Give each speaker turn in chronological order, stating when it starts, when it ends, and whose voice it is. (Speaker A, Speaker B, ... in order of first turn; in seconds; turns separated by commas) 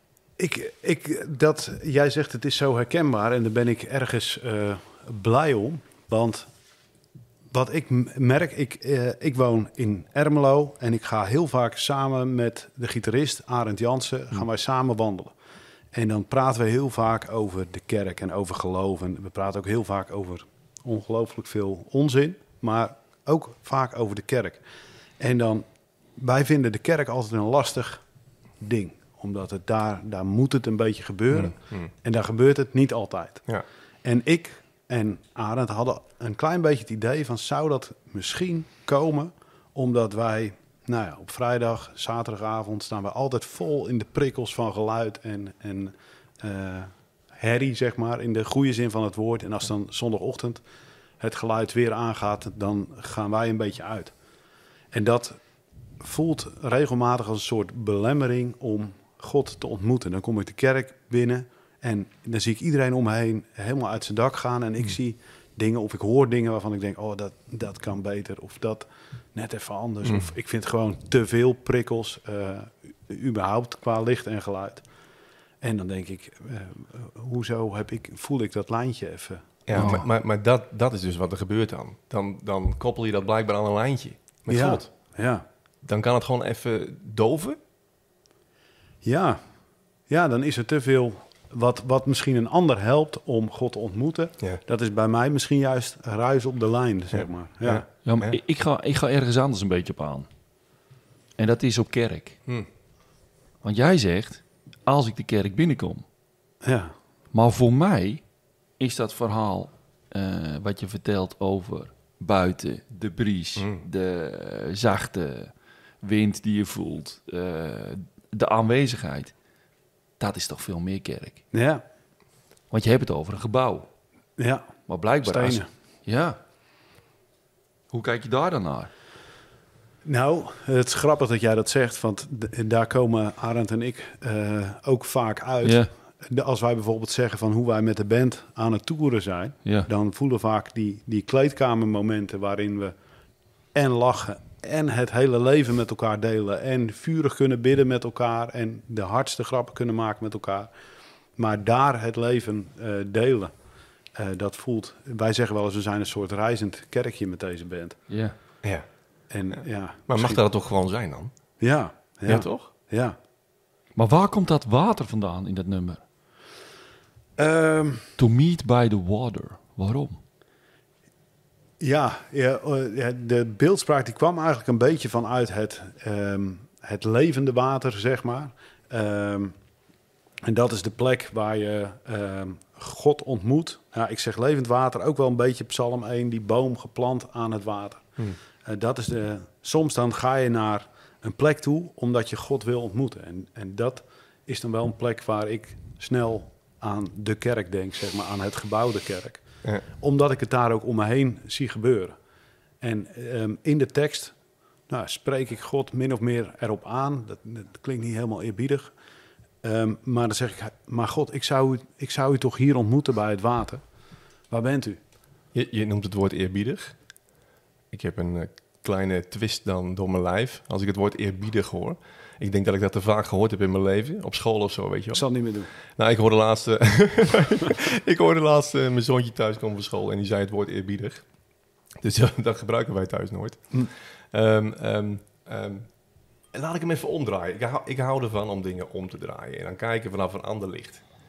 Speaker A: 0.4-6.5, Speaker A: 7.5-15.3, Speaker A: 15.9-24.6, Speaker A: 25.2-28.0, Speaker A: 28.6-33.5, Speaker B: 31.3-31.9, Speaker A: 34.0-50.6, Speaker A: 51.2-54.1, Speaker A: 54.9-55.4, Speaker A: 56.0-74.8, Speaker A: 75.6-80.0, Speaker B: 79.7-85.1, Speaker C: 79.7-80.0, Speaker A: 84.5-85.4, Speaker B: 85.8-87.6, Speaker A: 89.0-89.4, Speaker A: 90.1-97.8, Speaker B: 97.1-98.3, Speaker C: 98.0-100.3, Speaker C: 101.3-102.4, Speaker C: 103.6-106.0, Speaker A: 106.6-106.9, Speaker C: 107.3-119.3, Speaker B: 113.6-113.8, Speaker C: 120.2-121.4, Speaker A: 121.5-121.8, Speaker C: 122.7-123.9, Speaker A: 124.4-125.7, Speaker C: 124.9-126.4, Speaker C: 127.9-128.9, Speaker A: 130.0-142.9, Speaker C: 135.6-135.9, Speaker A: 143.7-150.7, Speaker A: 151.3-153.5, Speaker A: 154.1-158.1, Speaker C: 158.1-158.3, Speaker B: 158.6-161.3, Speaker A: 159.3-160.4, Speaker A: 161.6-163.2, Speaker B: 162.2-162.7, Speaker C: 163.9-166.0, Speaker A: 167.3-168.2, Speaker C: 168.2-170.2, Speaker A: 171.8-179.5, Speaker A: 180.4-202.2, Speaker A: 202.8-208.9, Speaker A: 209.6-213.8, Speaker A: 214.5-215.0, Speaker B: 215.5-217.1, Speaker B: 217.9-241.1, Speaker A: 225.1-225.7